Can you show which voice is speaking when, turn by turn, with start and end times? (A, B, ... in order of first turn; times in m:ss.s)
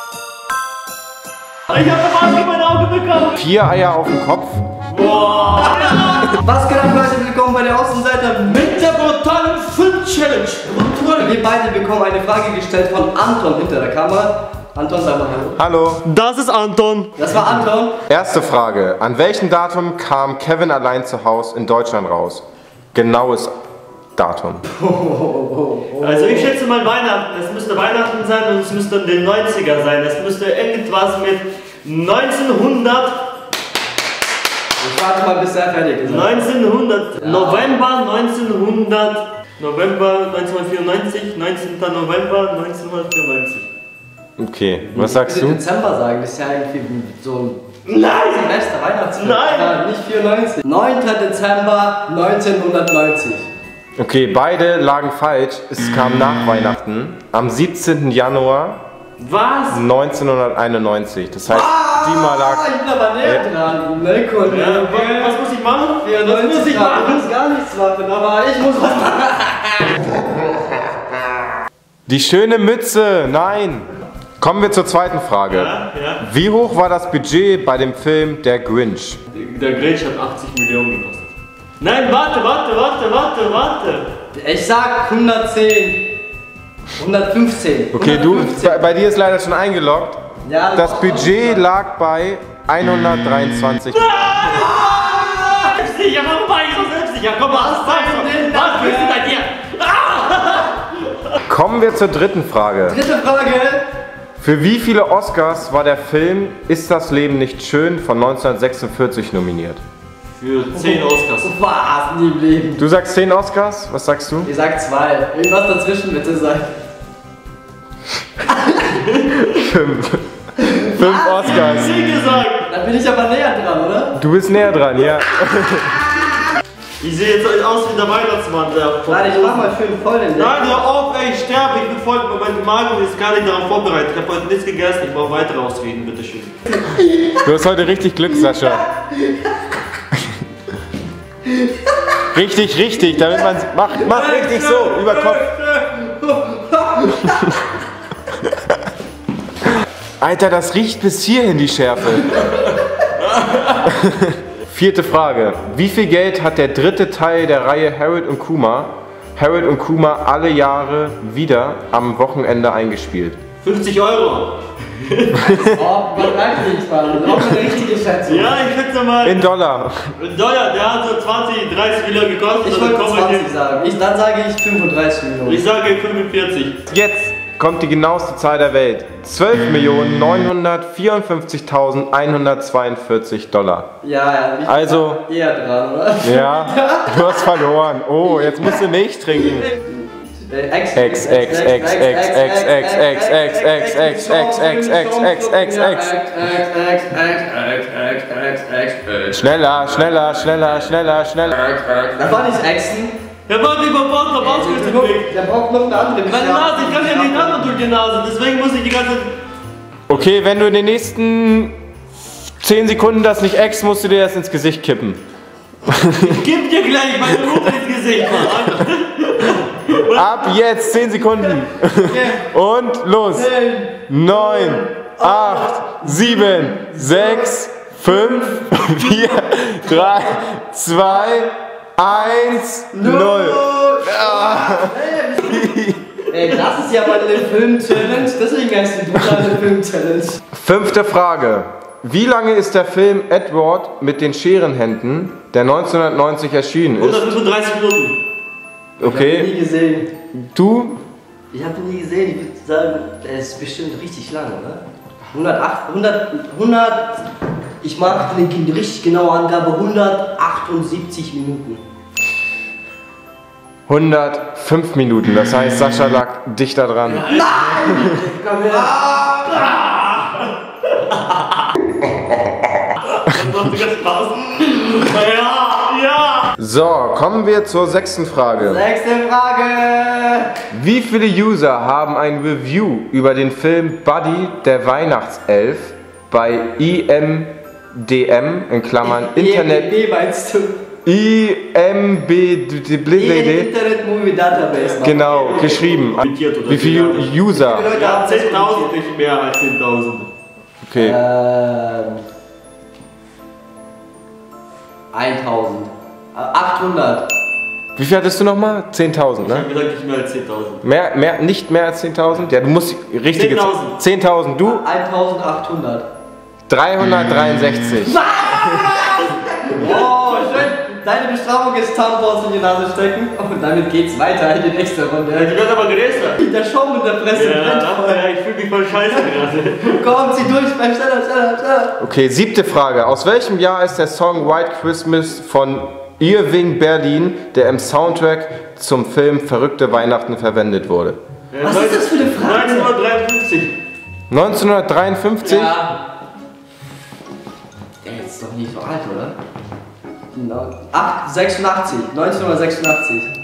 0:01.7-0:03.4 A
0:03.3-0:04.6 B
0:04.9-0:06.3 A
0:05.6-0:08.8 C
0:08.5-0:11.3 A
0:11.2-0:15.6 C
0:15.6-0:16.0 B
0:16.0-0:17.3 A
0:17.2-0:18.0 C
0:18.1-0:23.6 B
0:24.2-0:24.6 B
0:24.7-0:26.5 C
0:26.0-0:33.2 A
0:34.8-0:36.5 C
0:36.0-0:43.7 A
0:37.2-0:37.7 C
0:44.4-0:45.6 B
0:44.9-0:47.7 C
0:47.8-0:48.5 A
0:48.2-0:53.5 C
0:49.2-0:49.8 A
0:54.0-0:58.8 B
0:59.2-0:59.8 A
0:59.7-1:02.7 B
1:01.5-1:05.4 C
1:04.4-1:07.3 A
1:06.0-1:10.5 C
1:12.1-1:13.9 B
1:14.4-1:19.2 B
1:15.5-1:16.2 A
1:19.3-1:24.1 A
1:24.3-1:26.1 C
1:27.0-1:28.8 C
1:27.9-1:30.2 B
1:30.4-1:31.7 C
1:30.7-1:34.2 B
1:33.9-1:41.3 A
1:34.4-1:35.7 C
1:37.5-1:39.3 C
1:41.4-1:43.0 B
1:42.9-1:43.8 C
1:44.4-1:49.8 B
1:50.4-1:51.5 A
1:50.7-1:52.8 C
1:52.8-1:54.5 B
1:54.4-1:56.7 C
1:58.5-1:58.9 C
1:59.0-1:59.6 A
1:59.4-2:00.2 B
2:00.6-2:01.6 C
2:00.8-2:02.0 B
2:01.4-2:02.7 A
2:02.6-2:04.2 C
2:04.2-2:06.1 B
2:07.0-2:09.7 A
2:09.1-2:10.8 C
2:10.3-2:16.6 A
2:16.8-2:17.4 C
2:17.3-2:18.9 B
2:18.4-2:19.5 C
2:21.5-2:21.9 C
2:22.3-2:25.5 B
2:24.0-2:27.6 C
2:30.2-2:32.4 B
2:33.3-2:33.8 A
2:33.8-2:43.4 B
2:43.6-2:45.8 A
2:45.4-2:48.6 C
2:47.2-2:49.5 A
2:49.2-2:50.1 B
2:50.2-2:53.4 A
2:52.6-2:55.6 C
2:55.4-2:56.8 A
2:56.9-3:03.9 B
3:04.0-3:07.5 C
3:04.6-3:05.2 B
3:06.2-3:09.7 B
3:09.7-3:19.4 C
3:10.9-3:16.1 B
3:19.3-3:21.7 B
3:21.8-3:23.1 C
3:23.5-3:25.3 A
3:24.4-3:27.7 C
3:26.2-3:29.3 A
3:30.1-3:31.8 B
3:32.6-3:35.2 B
3:35.8-3:36.4 B
3:36.2-3:40.6 A
3:40.1-3:43.5 B
3:41.9-3:42.5 C
3:43.3-3:47.5 C
3:44.1-3:56.0 B
3:48.9-3:49.3 A
3:52.9-4:00.4 C
4:00.5-4:07.4 B
4:07.0-4:08.2 A
4:09.0-4:09.5 B
4:09.0-4:10.1 C
4:10.3-4:11.0 B
4:11.5-4:14.8 C
4:15.3-4:17.2 C
4:17.8-4:21.8 C
4:23.9-4:27.3 B
4:27.0-4:31.7 A
4:27.3-4:29.8 C
4:27.9-4:28.2 B
4:33.0-4:36.5 A
4:36.6-4:38.8 B
4:38.6-4:40.5 C
4:40.7-4:49.9 B
4:49.0-4:50.8 C
4:51.0-4:53.7 B
4:53.1-4:55.4 C
4:54.8-5:00.3 A
4:55.0-4:57.9 B
4:57.5-4:58.9 C
5:00.8-5:01.2 B
5:01.0-5:02.2 C
5:05.1-5:07.3 C
5:08.0-5:09.7 B
5:09.4-5:10.8 A
5:10.8-5:14.8 B
5:13.3-5:14.0 A
5:14.6-5:16.0 C
5:16.7-5:18.9 B
5:18.0-5:25.6 C
5:19.2-5:20.5 A
5:25.3-5:26.4 A
5:26.4-5:28.2 C
5:27.3-5:30.0 A
5:29.9-5:32.0 C
5:32.0-5:41.2 B
5:41.5-5:43.8 A
5:41.6-5:42.9 C
5:44.3-5:45.8 B
5:45.4-5:46.0 A
5:48.0-5:49.4 C
5:50.3-5:53.3 C